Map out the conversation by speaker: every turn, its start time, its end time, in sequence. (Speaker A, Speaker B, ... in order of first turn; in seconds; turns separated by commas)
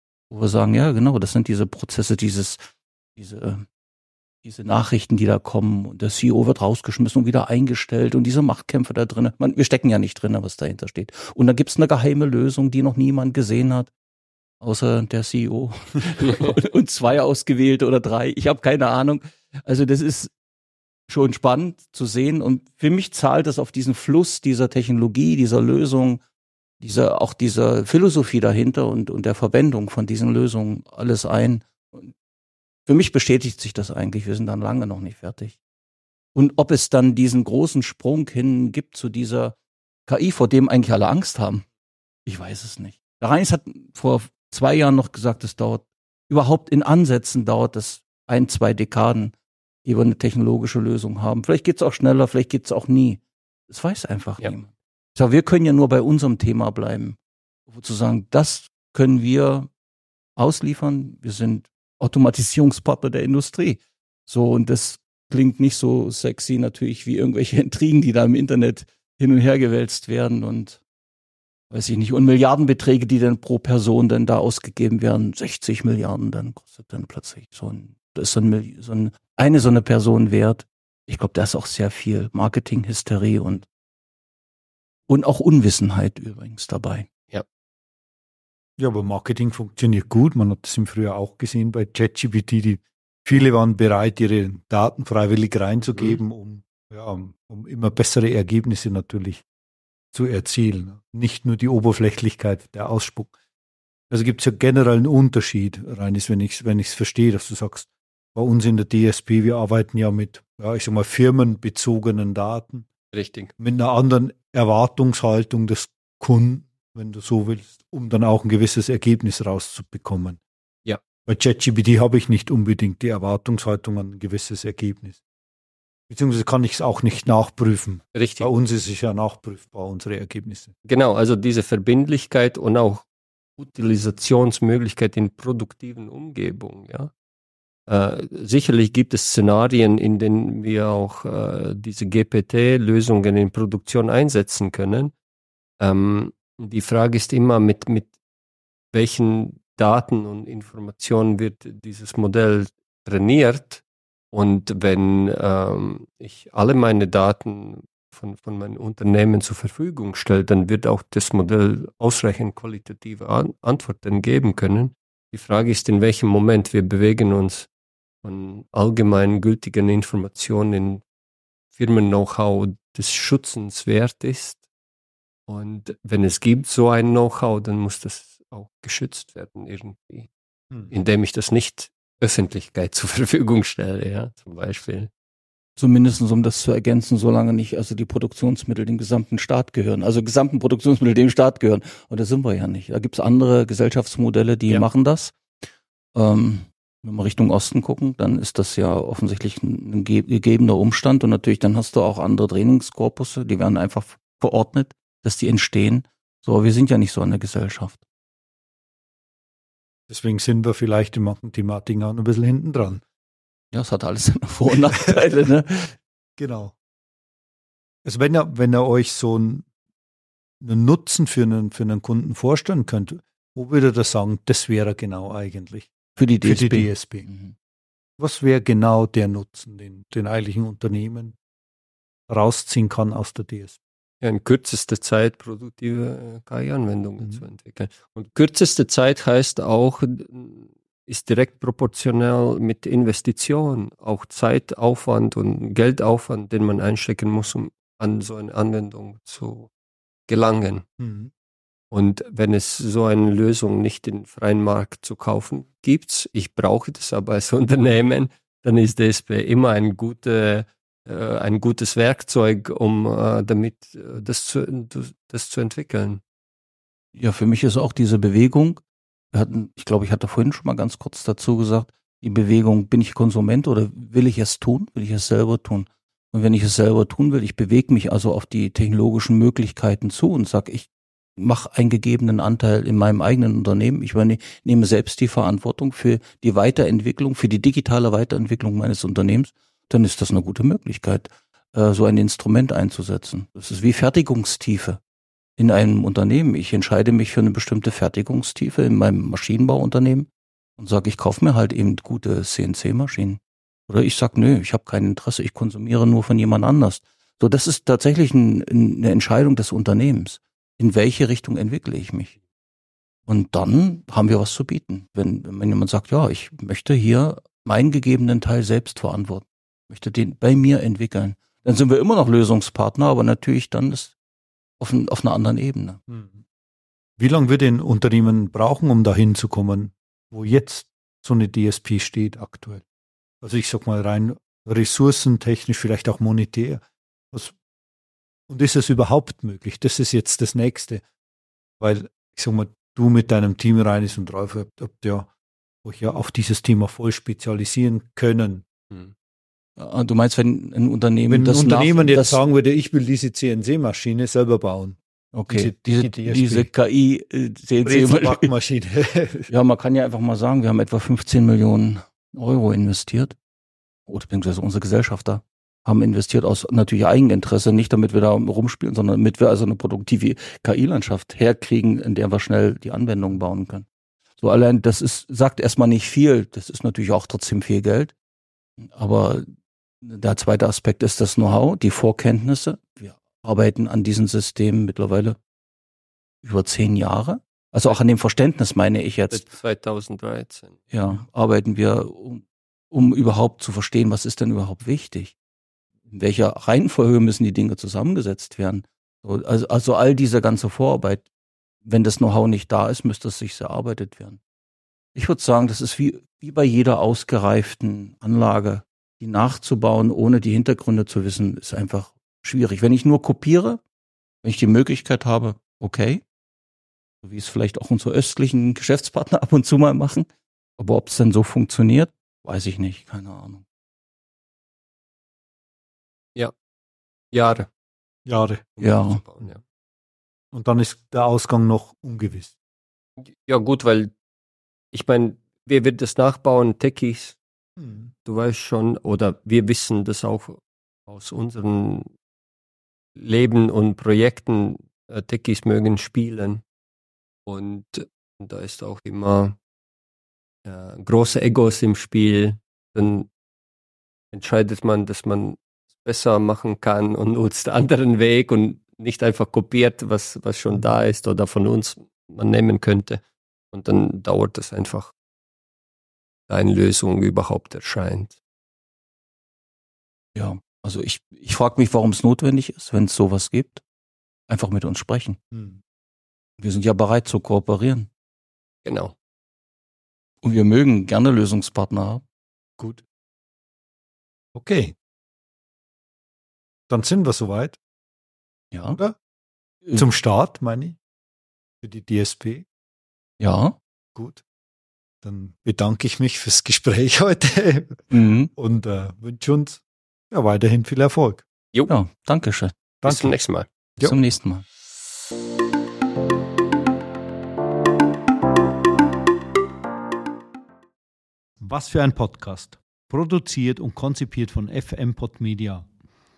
Speaker A: 0.3-2.6, Speaker A: 3.2-3.6, Speaker A: 4.4-13.9, Speaker A: 14.6-20.3, Speaker A: 21.1-26.2, Speaker A: 26.8-32.1, Speaker A: 32.9-35.6, Speaker A: 36.3-39.5, Speaker A: 40.1-41.6, Speaker A: 42.2-49.3, Speaker A: 49.8-57.2, Speaker A: 57.7-59.7, Speaker A: 60.4-70.8, Speaker A: 71.7-83.6, Speaker A: 85.1-87.1, Speaker B: 88.8-99.4, Speaker C: 95.9-96.2, Speaker B: 100.1-103.3, Speaker B: 104.1-112.9, Speaker C: 113.1-113.5, Speaker B: 113.6-120.4, Speaker B: 121.2-125.2, Speaker B: 126.1-130.7, Speaker C: 128.1-128.5, Speaker C: 130.9-133.0, Speaker C: 133.6-137.1, Speaker C: 137.9-145.1, Speaker C: 145.8-148.1, Speaker C: 148.9-167.7, Speaker C: 168.2-171.0, Speaker C: 171.7-174.6, Speaker C: 175.5-180.3, Speaker C: 180.9-185.1, Speaker A: 185.8-195.3, Speaker A: 196.1-208.0, Speaker B: 210.1-213.0, Speaker A: 213.7-215.9, Speaker B: 216.4-216.7, Speaker B: 218.0-219.7, Speaker B: 220.6-225.9, Speaker A: 226.2-227.5, Speaker B: 226.4-227.3, Speaker B: 228.2-231.3, Speaker B: 232.3-233.8, Speaker C: 234.2-249.7, Speaker C: 250.3-250.8, Speaker B: 251.0-251.3, Speaker C: 251.9-266.2, Speaker A: 267.1-268.8, Speaker A: 269.3-295.0, Speaker A: 295.6-312.3, Speaker A: 313.3-324.1, Speaker A: 324.8-326.0, Speaker B: 326.1-326.4, Speaker B: 327.2-332.8, Speaker B: 333.4-337.5, Speaker B: 338.5-341.0, Speaker B: 341.8-345.3, Speaker B: 345.8-348.7, Speaker A: 349.8-352.4, Speaker B: 351.3-356.7, Speaker A: 355.3-358.5, Speaker B: 357.8-359.5, Speaker A: 359.5-363.4, Speaker A: 364.1-373.9, Speaker A: 374.4-378.1, Speaker A: 378.8-379.5, Speaker A: 380.0-385.4, Speaker A: 386.4-389.4, Speaker C: 389.3-390.8, Speaker A: 390.9-395.3, Speaker A: 396.1-401.2, Speaker A: 401.8-404.4, Speaker A: 405.1-413.8, Speaker A: 414.4-416.2, Speaker A: 417.2-423.6, Speaker C: 427.3-427.7, Speaker B: 428.2-428.7, Speaker C: 428.8-429.6, Speaker A: 428.8-429.2, Speaker B: 430.5-432.5, Speaker C: 433.2-434.1, Speaker C: 434.9-437.4, Speaker B: 437.8-438.1, Speaker C: 438.2-442.1, Speaker C: 443.1-446.6, Speaker C: 447.4-449.6, Speaker C: 450.6-453.3, Speaker C: 454.3-465.1, Speaker C: 466.5-468.4, Speaker A: 470.3-473.8, Speaker A: 474.5-475.4, Speaker B: 475.5-475.8, Speaker A: 476.6-478.1, Speaker C: 478.8-479.1, Speaker A: 480.4-482.2, Speaker B: 482.8-483.0, Speaker B: 484.5-484.9, Speaker B: 486.9-487.8, Speaker A: 488.7-489.0, Speaker B: 489.9-491.0, Speaker B: 491.8-492.6, Speaker A: 493.4-493.8, Speaker B: 494.1-494.4, Speaker B: 495.2-501.4, Speaker A: 498.1-498.5, Speaker A: 501.9-502.7, Speaker B: 503.0-503.4, Speaker C: 503.0-503.7, Speaker A: 504.0-504.6, Speaker B: 511.6-515.9